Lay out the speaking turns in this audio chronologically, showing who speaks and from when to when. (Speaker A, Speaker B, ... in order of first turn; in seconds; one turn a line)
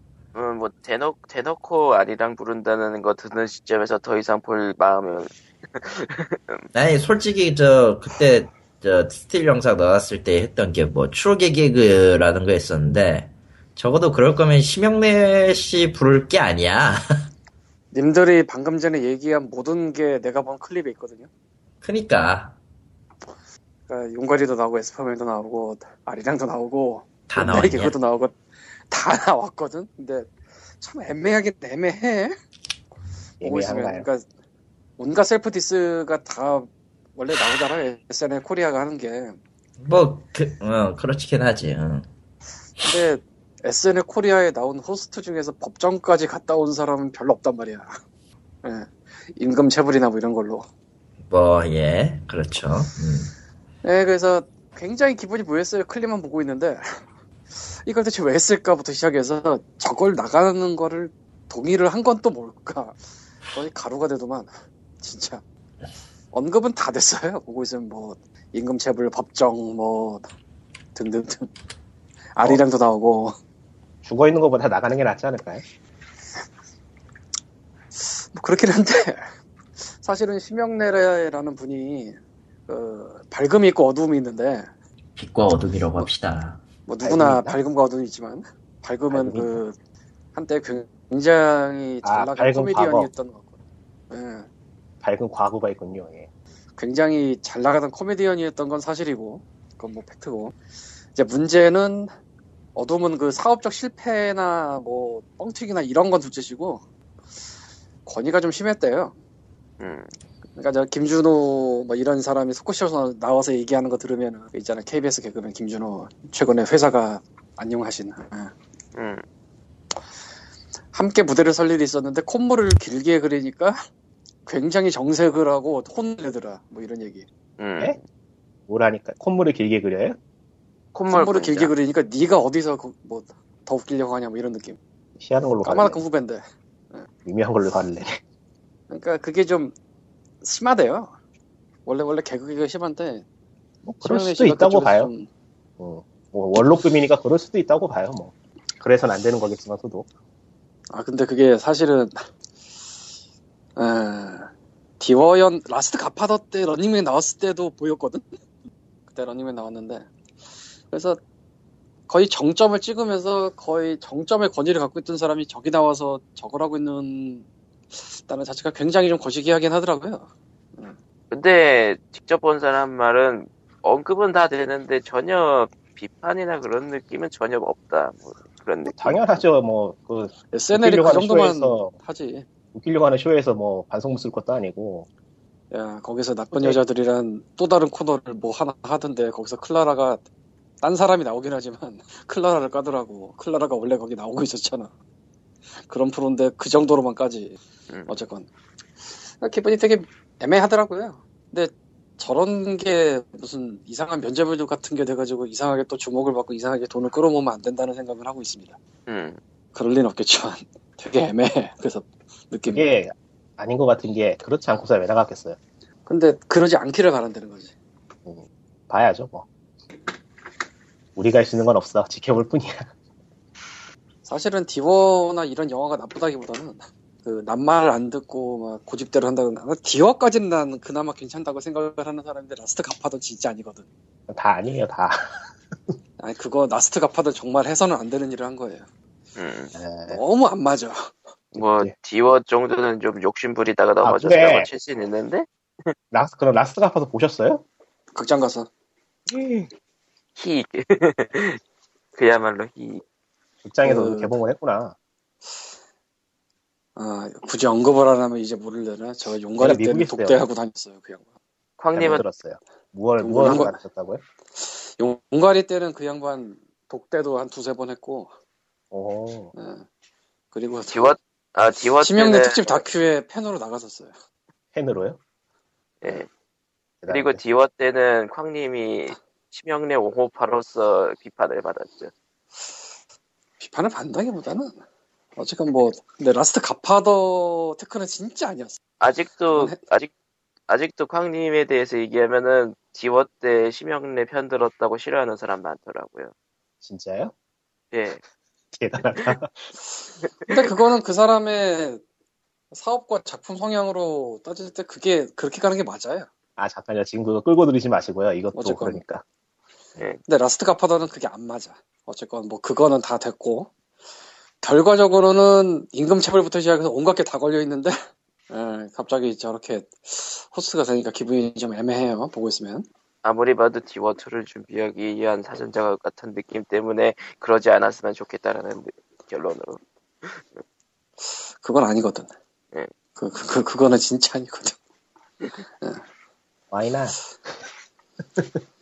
Speaker A: 0.3-6.7
Speaker B: 6.7-17.0
Speaker C: 17.9-21.3
Speaker B: 21.8-22.6
Speaker C: 23.9-28.4
Speaker B: 27.3-27.9
Speaker C: 28.9-32.3
Speaker D: 33.4-34.1
Speaker C: 33.4-34.2
Speaker C: 35.0-39.4
Speaker B: 39.8-42.1
Speaker C: 42.8-48.0
Speaker C: 48.6-50.7
Speaker B: 51.3-53.3
Speaker C: 53.8-57.0
Speaker C: 57.9-63.0
Speaker C: 63.5-65.4
Speaker C: 66.3-70.3
Speaker C: 71.0-71.5
Speaker C: 72.3-73.4
Speaker D: 74.0-75.6
Speaker C: 78.0-79.2
Speaker C: 80.0-82.2
Speaker C: 82.7-84.7
Speaker B: 85.2-86.6
Speaker C: 86.9-89.8
Speaker D: 87.0-87.6
Speaker D: 89.1-89.6
Speaker C: 90.3-93.5
Speaker D: 92.0-93.1
Speaker C: 94.1-94.5
Speaker D: 95.0-96.3
Speaker C: 96.8-100.5
Speaker C: 101.2-102.1
Speaker C: 102.8-106.8
Speaker C: 108.1-109.2
Speaker A: 109.8-110.1
Speaker C: 110.6-118.5
Speaker A: 119.0-119.2
Speaker C: 120.9-123.8
Speaker C: 124.5-127.3
Speaker A: 127.6-128.0
Speaker D: 128.7-130.2
Speaker A: 130.9-131.7
Speaker C: 131.1-134.8
Speaker D: 135.2-136.0
Speaker C: 135.6-136.4
Speaker D: 137.2-138.2
Speaker C: 138.9-139.8
Speaker C: 140.4-141.1
Speaker C: 141.9-143.2
Speaker D: 143.8-145.1
Speaker C: 144.0-145.3
Speaker D: 145.8-150.1
Speaker C: 150.9-152.2
Speaker C: 153.8-158.2
Speaker C: 159.1-160.1
Speaker C: 160.9-161.2
Speaker C: 162.1-171.0
Speaker A: 171.3-179.2
Speaker D: 178.9-181.9
Speaker C: 180.5-182.5
Speaker D: 182.7-185.1
Speaker C: 185.7-190.2
Speaker D: 186.5-186.8
Speaker C: 190.8-194.9
Speaker C: 195.9-198.5
Speaker A: 197.9-198.2
Speaker C: 199.4-208.8
Speaker A: 209.1-209.4
Speaker C: 209.8-212.9
Speaker D: 212.7-215.6
Speaker C: 216.1-217.7
Speaker D: 218.3-219.5
Speaker D: 221.2-222.9
Speaker C: 224.2-233.8
Speaker D: 234.3-235.2
Speaker C: 236.2-238.9
Speaker A: 239.4-239.7
Speaker D: 239.8-240.2
Speaker C: 240.1-241.1
Speaker A: 241.5-245.9
Speaker D: 241.6-241.9
Speaker D: 244.0-244.7
Speaker D: 246.1-247.6
Speaker C: 248.1-248.7
Speaker D: 249.3-249.7
Speaker A: 250.4-251.6
Speaker A: 252.2-253.0
Speaker D: 253.6-255.0
Speaker C: 253.8-254.3
Speaker C: 257.0-261.2
Speaker D: 259.6-260.4
Speaker A: 261.8-262.2
Speaker D: 261.9-264.2
Speaker C: 263.2-263.8
Speaker C: 264.6-268.3
Speaker D: 268.9-269.5
Speaker C: 269.6-269.9
Speaker C: 270.5-271.1
Speaker A: 270.9-272.8
Speaker C: 272.0-274.1
Speaker D: 274.7-275.2
Speaker A: 276.0-276.3
Speaker D: 277.0-277.4
Speaker A: 277.1-282.1
Speaker C: 283.6-284.8
Speaker C: 285.4-288.8
Speaker A: 289.0-290.1
Speaker C: 289.5-289.8
Speaker A: 290.7-296.3
Speaker D: 296.8-297.3
Speaker A: 297.9-298.2
Speaker D: 298.7-299.7
Speaker C: 300.5-302.0
Speaker C: 302.7-306.3
Speaker D: 306.6-309.2
Speaker C: 308.5-309.0
Speaker C: 310.3-313.7
Speaker C: 314.6-318.0
Speaker C: 318.5-322.9
Speaker A: 323.2-330.5
Speaker C: 331.6-332.3
Speaker C: 333.2-334.8
Speaker D: 336.7-337.2